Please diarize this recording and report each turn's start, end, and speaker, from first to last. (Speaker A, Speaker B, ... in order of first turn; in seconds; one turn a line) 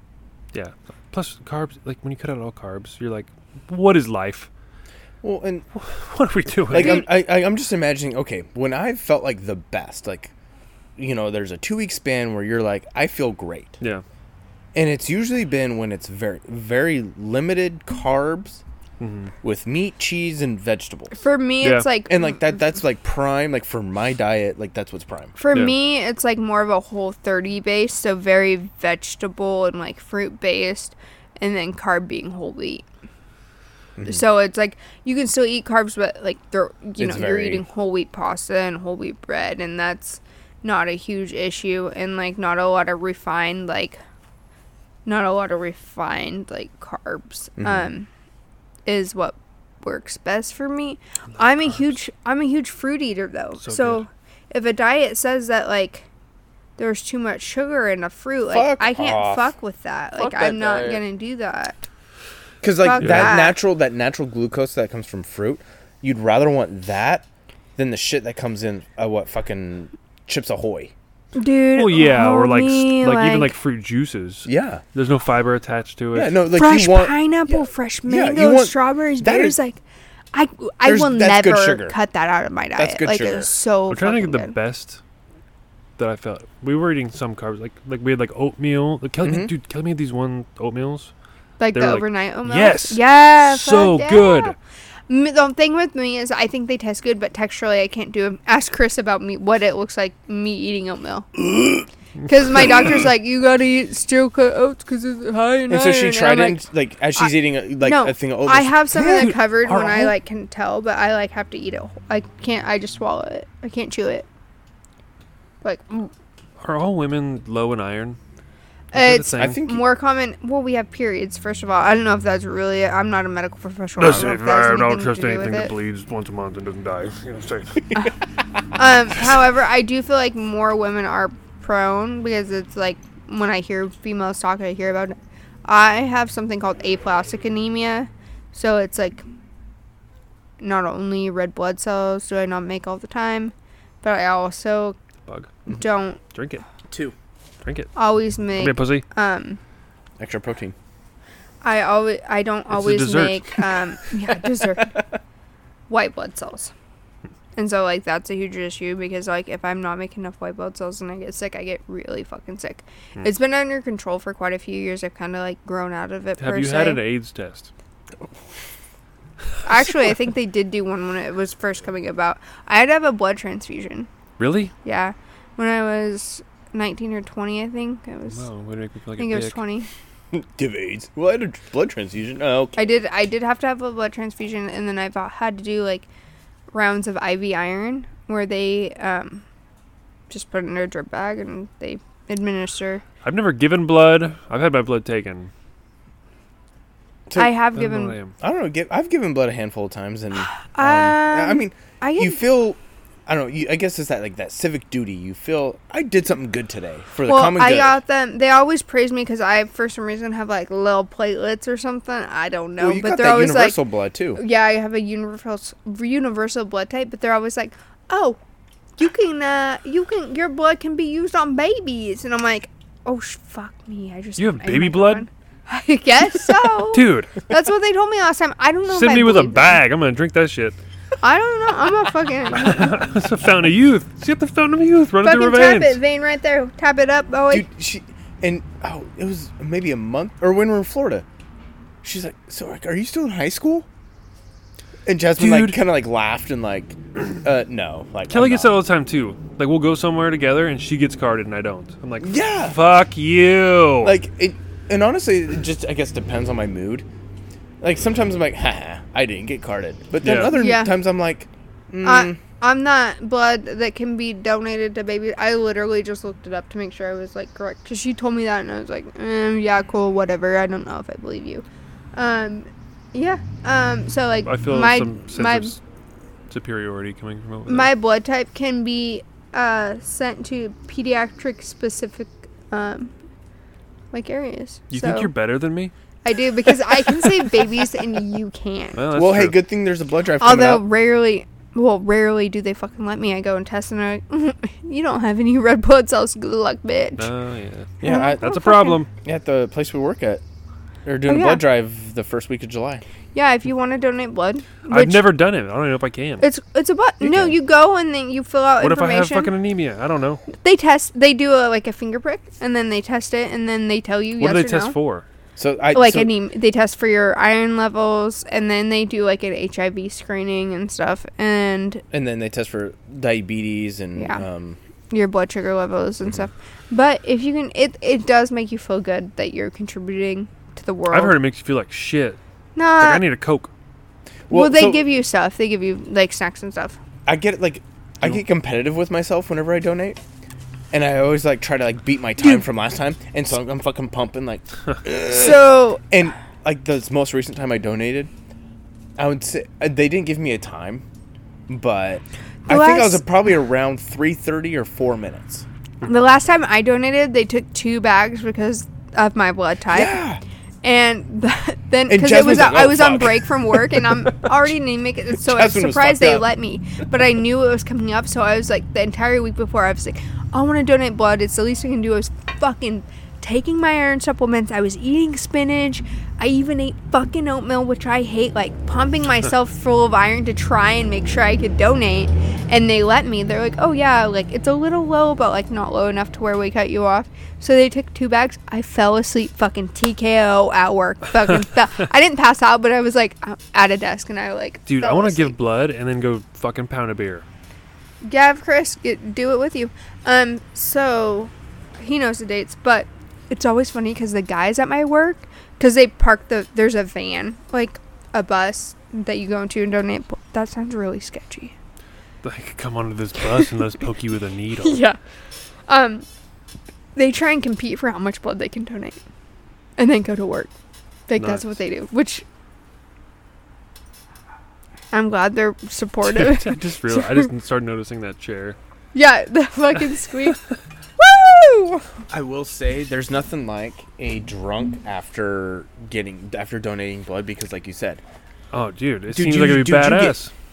Speaker A: 0.5-4.5
Speaker B: 5.2-5.7
Speaker A: 5.8-7.0
Speaker B: 6.7-10.3
Speaker C: 6.8-7.1
Speaker B: 11.0-13.8
Speaker B: 14.7-18.6
Speaker A: 19.0-19.3
Speaker B: 19.4-21.1
Speaker C: 21.1-22.5
Speaker A: 21.6-21.9
Speaker B: 22.1-25.3
Speaker C: 25.4-32.8
Speaker B: 34.0-34.2
Speaker C: 34.0-44.0
Speaker B: 37.0-37.6
Speaker C: 45.0-48.1
Speaker B: 47.6-47.9
Speaker C: 48.9-56.1
Speaker A: 53.6-54.0
Speaker C: 56.8-61.9
Speaker B: 58.5-59.5
Speaker B: 60.2-61.0
Speaker B: 62.6-67.2
Speaker C: 62.8-63.6
Speaker A: 63.0-63.4
Speaker B: 67.8-70.9
Speaker C: 71.3-73.5
Speaker A: 71.7-76.4
Speaker B: 74.4-74.8
Speaker B: 76.1-79.5
Speaker C: 76.5-79.8
Speaker C: 80.3-84.5
Speaker B: 80.8-82.0
Speaker B: 82.8-83.5
Speaker A: 83.9-85.0
Speaker A: 86.0-91.1
Speaker B: 89.2-89.5
Speaker C: 91.6-94.5
Speaker A: 91.7-94.5
Speaker C: 95.1-101.3
Speaker C: 102.2-106.6
Speaker B: 105.7-110.1
Speaker C: 107.2-114.2
Speaker A: 109.0-109.4
Speaker C: 115.6-116.1
Speaker A: 116.6-118.2
Speaker A: 118.9-119.6
Speaker C: 118.9-125.7
Speaker B: 119.3-119.8
Speaker A: 124.0-127.9
Speaker C: 128.7-139.2
Speaker C: 140.6-144.9
Speaker A: 145.2-145.5
Speaker C: 145.7-146.2
Speaker A: 146.3-146.6
Speaker B: 146.9-147.1
Speaker A: 147.6-147.9
Speaker C: 147.9-149.6
Speaker A: 148.5-149.0
Speaker B: 150.2-150.8
Speaker C: 151.6-155.0
Speaker A: 152.7-153.6
Speaker C: 155.9-156.7
Speaker C: 157.6-167.0
Speaker A: 166.4-167.7
Speaker C: 169.6-174.1
Speaker A: 174.4-174.7
Speaker C: 174.8-178.4
Speaker A: 178.3-179.6
Speaker C: 179.2-179.9
Speaker B: 180.3-182.9
Speaker C: 182.8-186.1
Speaker C: 186.7-189.4
Speaker C: 190.3-193.0
Speaker A: 193.2-195.5
Speaker B: 197.3-197.5
Speaker C: 197.3-198.2
Speaker A: 197.8-198.3
Speaker B: 198.4-208.0
Speaker C: 200.5-202.4
Speaker C: 207.2-213.8
Speaker B: 212.8-214.4
Speaker C: 214.3-218.4
Speaker C: 219.0-229.8
Speaker A: 224.4-225.3
Speaker A: 226.9-227.4
Speaker A: 228.9-230.8
Speaker C: 231.2-232.9
Speaker A: 232.5-236.0
Speaker C: 235.2-237.7
Speaker B: 237.5-241.2
Speaker B: 242.0-243.9
Speaker B: 245.1-248.7
Speaker A: 245.4-245.8
Speaker A: 248.3-254.2
Speaker B: 252.2-252.8
Speaker B: 254.0-257.0
Speaker B: 257.8-262.4
Speaker A: 260.2-260.5
Speaker C: 260.5-260.9
Speaker C: 262.0-275.8
Speaker A: 274.4-275.8
Speaker A: 276.5-277.9
Speaker C: 277.7-283.1
Speaker C: 284.1-285.3
Speaker A: 284.9-285.9
Speaker C: 286.2-289.0
Speaker A: 288.9-289.6
Speaker B: 289.1-290.9
Speaker C: 290.4-297.3
Speaker A: 297.2-299.1
Speaker B: 298.0-298.5
Speaker C: 298.0-299.0
Speaker B: 299.2-300.4
Speaker B: 301.0-303.0
Speaker C: 301.3-301.6
Speaker C: 303.3-305.3
Speaker A: 304.9-306.4
Speaker C: 306.4-309.5
Speaker B: 307.2-307.6
Speaker A: 308.8-310.4
Speaker C: 310.5-314.9
Speaker A: 314.4-315.2
Speaker B: 315.6-316.3
Speaker C: 315.9-322.0
Speaker B: 322.1-324.8
Speaker C: 324.2-324.4
Speaker C: 325.1-331.4
Speaker A: 331.1-332.4
Speaker C: 332.8-333.2
Speaker A: 333.0-333.7
Speaker B: 334.5-335.0
Speaker C: 334.5-337.0
Speaker B: 337.2-340.2
Speaker B: 340.9-348.3
Speaker C: 345.2-346.0
Speaker B: 349.2-351.0
Speaker B: 351.7-355.6
Speaker C: 352.6-353.2
Speaker C: 356.0-360.2
Speaker B: 359.9-360.4
Speaker C: 360.8-395.5
Speaker B: 362.1-364.5
Speaker B: 365.4-366.5
Speaker A: 394.9-397.4
Speaker C: 398.2-411.7
Speaker A: 412.4-415.0
Speaker C: 414.8-415.2
Speaker C: 415.9-416.2
Speaker C: 417.1-419.2
Speaker C: 420.0-420.7
Speaker C: 421.3-422.4
Speaker A: 421.4-421.7
Speaker C: 425.1-427.4
Speaker A: 426.2-428.8
Speaker C: 429.1-430.6
Speaker C: 431.2-432.1
Speaker B: 432.3-438.2
Speaker A: 438.7-440.5
Speaker B: 439.3-440.4